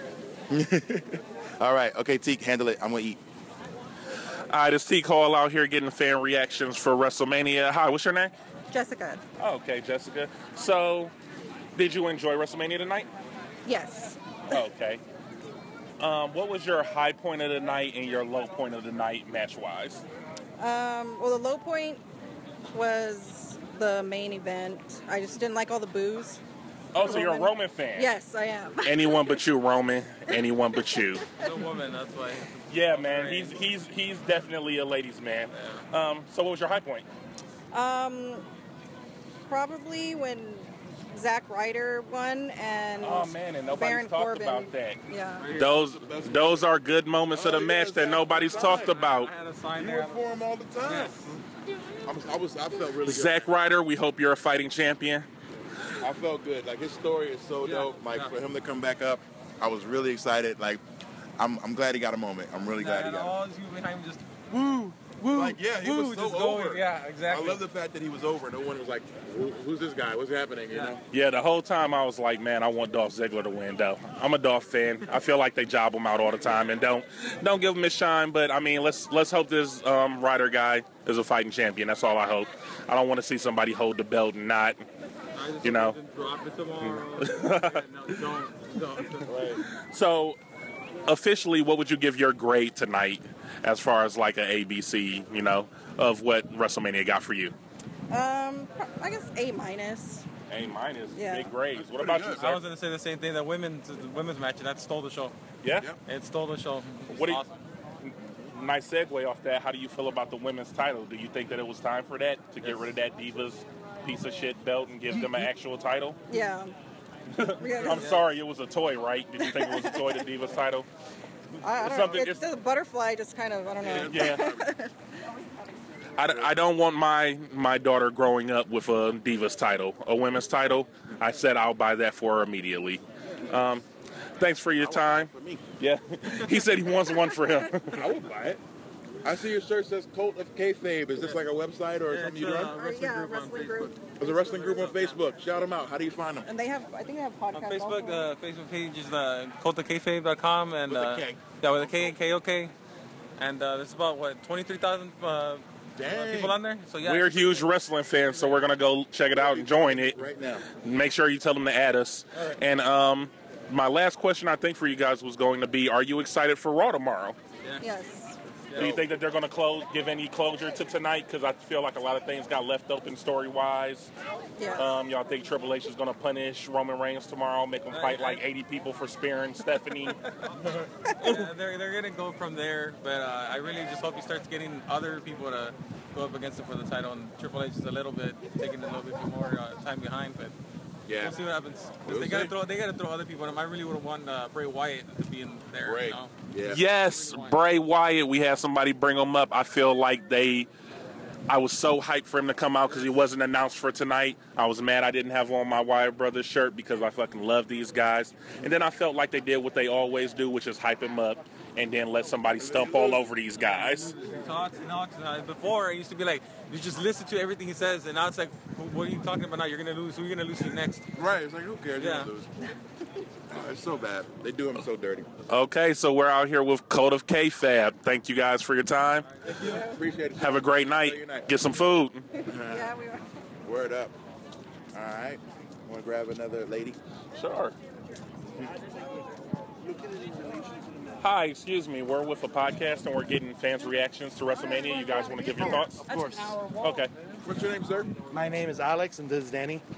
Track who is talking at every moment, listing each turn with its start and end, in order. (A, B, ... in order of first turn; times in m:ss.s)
0:00.5-0:03.2 A
0:04.5-0:08.3 B
0:08.7-0:09.2 C
0:09.4-0:11.1 B
0:11.8-0:13.1 B
0:13.6-0:14.6 C
0:14.5-0:15.0 B
0:16.0-0:20.0 B
0:20.6-0:22.0 C
0:22.7-0:26.4 C
0:26.9-0:28.1 B
0:27.0-0:29.4 C
0:28.8-0:31.3 B
0:30.3-0:31.1 C
0:31.4-0:33.7 D
0:32.7-0:37.0 B
0:35.5-0:35.8 D
0:37.7-0:38.4 C
0:39.5-0:45.5 C
0:43.0-0:45.0 B
0:45.4-0:45.8 D
0:45.5-0:49.3 B
0:45.8-0:46.6 A
0:47.3-0:49.0 A
0:48.4-0:50.2 D
0:49.7-0:51.2 A
0:50.8-0:51.4 D
0:52.0-0:53.4 A
0:53.0-0:55.3 B
0:56.0-1:00.8 A
0:57.6-0:58.3 D
1:01.4-1:03.4 A
1:02.7-1:07.6 D
1:05.3-1:11.0 A
1:10.7-1:11.0 D
1:11.1-1:24.8 B
1:25.3-1:29.5 D
1:25.6-1:26.0 B
1:27.2-1:28.1 B
1:29.8-1:30.4 B
1:31.0-1:37.5 B
1:38.1-1:40.2 C
1:40.5-1:42.6 B
1:41.1-1:41.5 C
1:41.8-1:42.5 A
1:42.4-1:45.3 D
1:45.6-1:45.9 B
1:46.0-1:47.6 D
1:47.1-1:47.4 B
1:48.0-1:56.2 B
1:56.3-1:56.7 C
1:57.3-2:00.9 B
1:57.6-1:58.2 C
1:57.8-1:58.2 D
1:59.4-2:00.2 C
2:01.6-2:04.9 C
2:01.8-2:02.4 B
2:03.8-2:04.6 A
2:04.0-2:04.5 B
2:06.2-2:13.8 B
2:06.2-2:06.5 A
2:14.4-2:18.1 B
2:14.8-2:15.6 A
2:17.9-2:18.6 A
2:19.2-2:22.8 A
2:22.1-2:25.2 D
2:22.7-2:24.4 C
2:24.2-2:26.5 A
2:26.4-2:28.3 C
2:27.5-2:32.7 D
2:30.9-2:32.2 A
2:33.4-2:37.7 D
2:36.0-2:36.6 A
2:37.0-2:40.2 B
2:39.3-2:40.6 A
2:40.7-2:47.4 B
2:47.8-2:48.4 C
2:48.7-2:49.0 D
2:48.7-2:54.1 B
2:54.6-2:54.9 C
2:54.8-3:00.2 B
2:57.9-2:58.4 D
3:00.7-3:10.5 D
3:11.1-3:11.4 A
3:11.2-3:16.4 D
3:12.0-3:12.5 A
3:15.8-3:16.8 A
3:16.6-3:20.7 B
3:17.0-3:17.6 D
3:21.5-3:34.2 B
3:32.6-3:33.2 A
3:34.0-3:34.4 A
3:34.2-3:41.0 D
3:41.2-3:42.7 A
3:42.0-3:42.3 D
3:43.5-3:45.3 A
3:45.5-3:49.3 B
3:49.4-3:49.8 D
3:49.5-3:51.5 A
3:50.4-3:52.2 B
3:52.4-3:53.2 C
3:52.5-3:52.9 A
3:53.6-3:54.1 A
3:54.9-3:57.0 A
3:57.3-3:57.7 B
3:59.9-4:00.7 E
4:01.2-4:06.1 B
4:05.6-4:06.7 E
4:06.8-4:07.1 B
4:07.4-4:08.2 A
4:08.3-4:09.8 E